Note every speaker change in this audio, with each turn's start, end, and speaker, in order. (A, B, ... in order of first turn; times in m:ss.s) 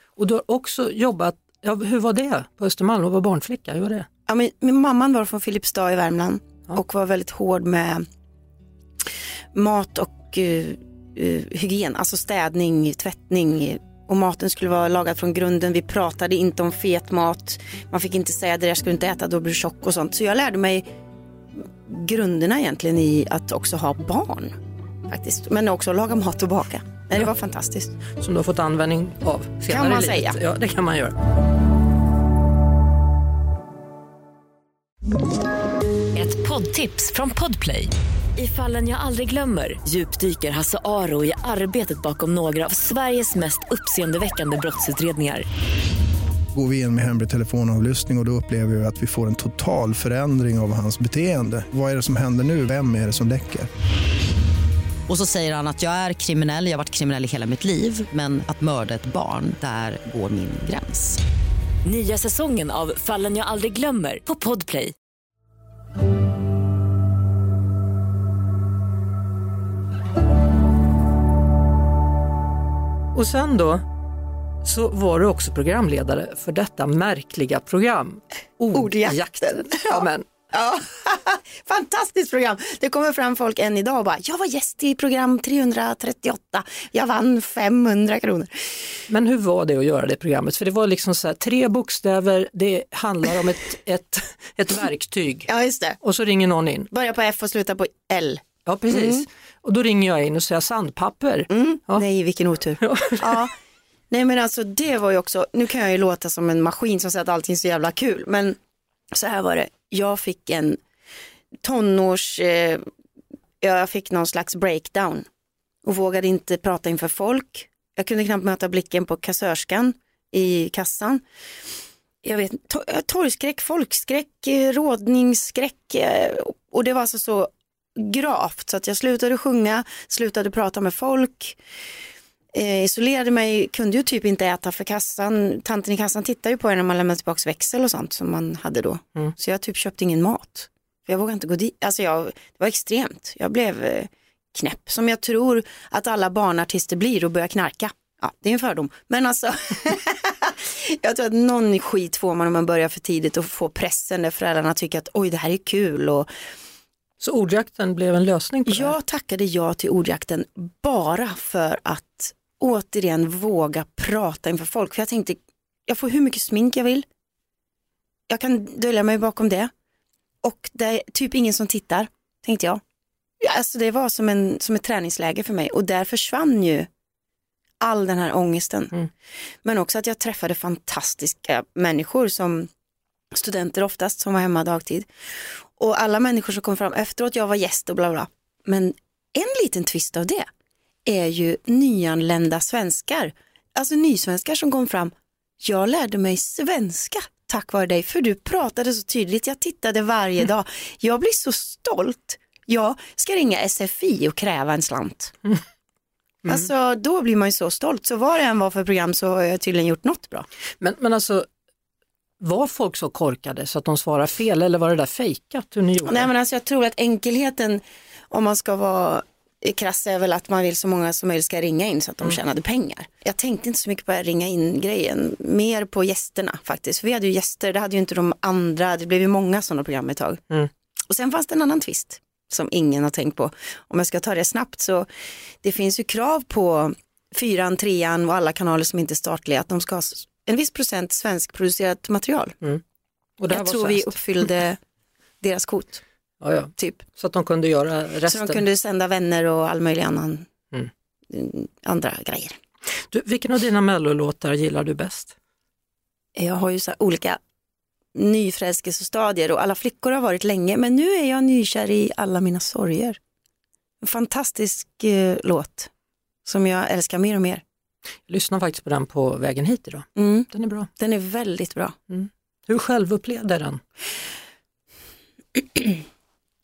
0:00.2-0:04.1 A
0:04.3-0:08.1 B
0:09.5-0:20.9 B
0:21.6-0:24.6 B
0:25.1-0:28.0 B
0:28.2-0:31.2 A
0:29.7-0:30.4 B
0:36.2-0:45.5 C
0:46.5-0:53.7 D
0:55.1-1:01.2 E
1:01.8-1:05.0 C
1:13.1-1:13.9 A
1:14.6-1:20.2 A
1:18.7-1:29.0 B
1:29.1-1:35.5 A
1:35.5-1:36.0 B
1:36.0-1:36.9 A
1:36.9-1:39.2 B
1:38.6-1:42.0 A
1:41.5-1:43.5 B
1:42.8-1:43.5 A
1:44.1-1:48.6 B
1:49.1-1:50.8 B
1:51.6-1:52.8 B
1:53.6-1:55.3 B
1:55.8-2:01.2 B
2:02.2-2:11.6 B
2:12.5-2:36.3 B
2:37.2-2:39.0 A
2:38.7-2:47.1 B
2:48.3-2:49.7 B
2:50.4-2:52.8 B
2:53.4-2:56.9 B
2:57.8-2:59.1 B
2:59.6-3:02.7 B
3:03.3-3:10.5 B
3:11.1-3:25.3 B
3:26.5-3:30.5 B
3:30.8-3:31.5 A
3:32.4-3:36.3 A
3:36.0-3:50.4 B
3:51.1-3:55.1 B
3:55.6-4:02.6 B
4:03.4-4:04.5 A
4:03.5-4:04.8 B
4:05.4-4:06.0 B
4:06.4-4:08.6 A
4:08.3-4:10.5 B
4:11.3-4:12.6 B
4:13.0-4:15.4 A
4:16.4-4:17.4 B
4:18.2-4:23.2 B
4:24.0-4:25.9 B
4:26.5-4:27.6 B
4:28.3-4:30.9 A
4:30.2-4:32.0 B
4:32.1-4:33.8 A
4:35.6-4:36.0 B